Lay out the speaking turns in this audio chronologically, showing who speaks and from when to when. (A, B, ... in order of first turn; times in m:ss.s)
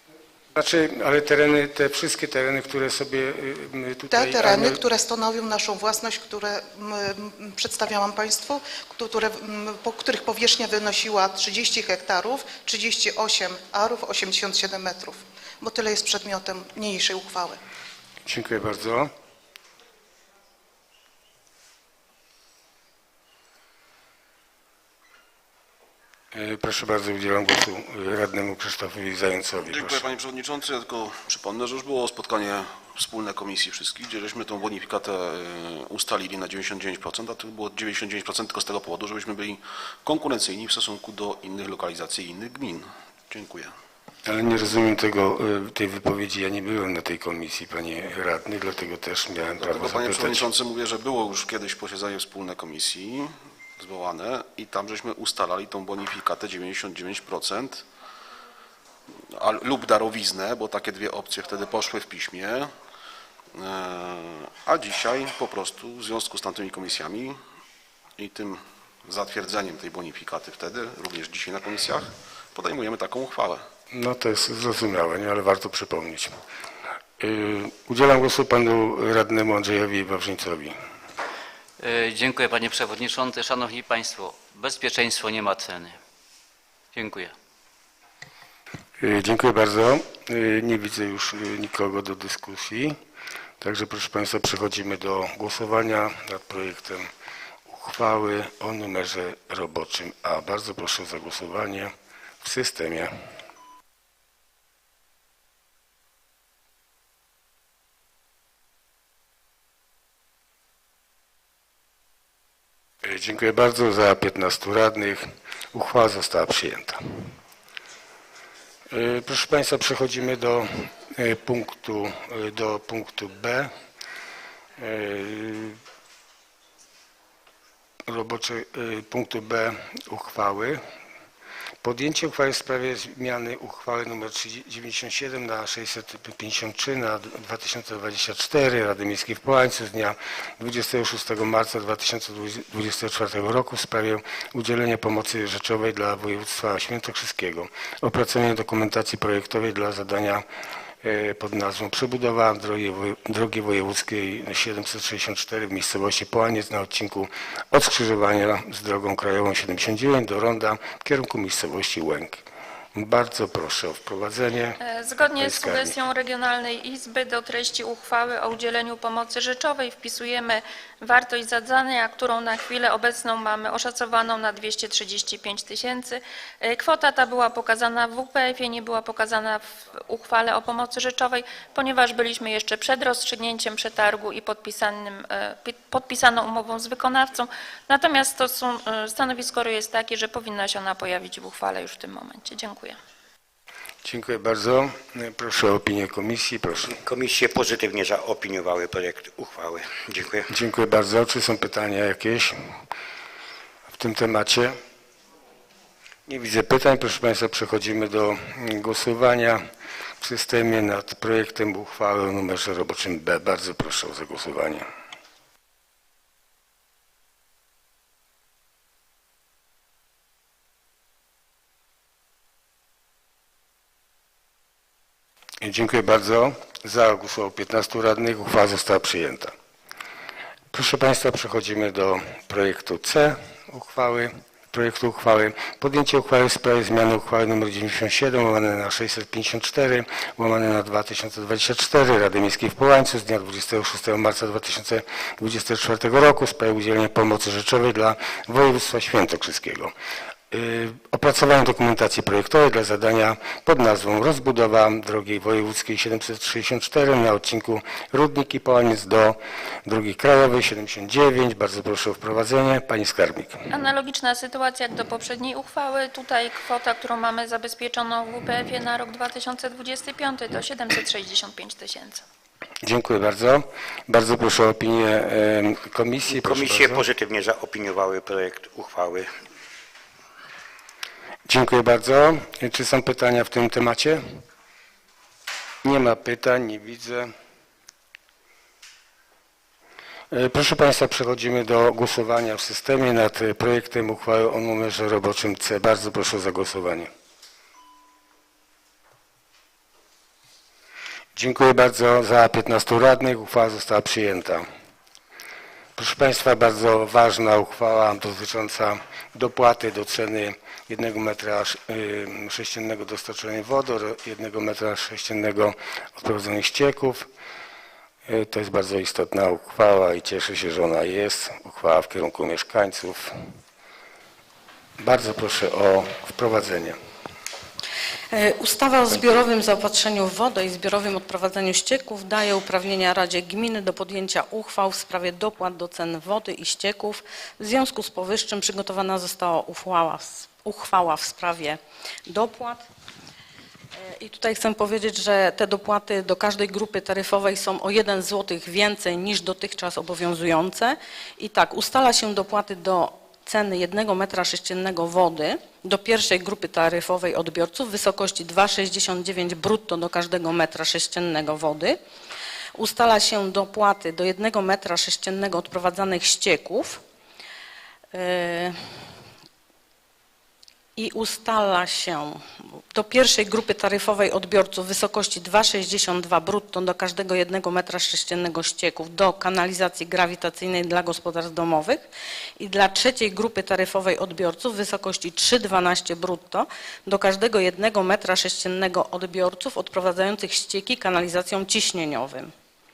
0:00.5-0:04.8 A
0:04.1-0:17.6 B
0:18.2-0:19.1 A
0:26.3-0:30.1 A
0:29.6-0:43.7 C
0:44.2-0:50.5 A
0:49.6-0:57.9 C
0:59.3-1:02.7 C
1:03.6-1:07.4 C
1:08.2-1:13.7 C
1:13.9-1:16.3 A
1:17.2-1:20.8 A
1:21.8-1:26.0 D
1:26.9-1:27.3 D
1:29.0-1:33.0 A
1:33.6-1:37.1 A
1:37.7-1:43.1 A
1:53.0-1:57.3 A
1:58.9-2:03.7 A
2:04.8-2:05.8 A
2:08.1-2:10.8 A
2:11.8-2:30.4 A
2:31.0-2:42.4 A
2:43.0-2:44.8 A
2:44.8-3:13.0 E
2:45.4-2:45.9 A
3:14.0-3:17.0 A
3:16.9-3:20.5 F
3:20.5-3:22.6 A
3:23.9-3:24.8 A
3:26.3-3:29.6 A
3:30.2-3:34.9 A
3:45.6-3:49.5 A
3:50.7-4:09.9 A
4:10.5-4:23.7 A
4:23.7-4:32.2 E
4:32.8-4:37.0 A
4:36.3-4:39.3 F
4:41.5-4:44.2 A
4:45.8-4:47.3 A
4:50.3-4:57.1 A
5:01.4-5:04.7 A
5:06.0-5:17.3 A
5:18.3-5:23.4 A
5:25.0-5:27.0 A
5:28.3-5:42.8 G
5:44.0-6:02.0 G
6:02.8-6:07.0 G
6:08.1-6:08.8 G
6:11.0-6:22.0 G
6:22.6-6:32.5 G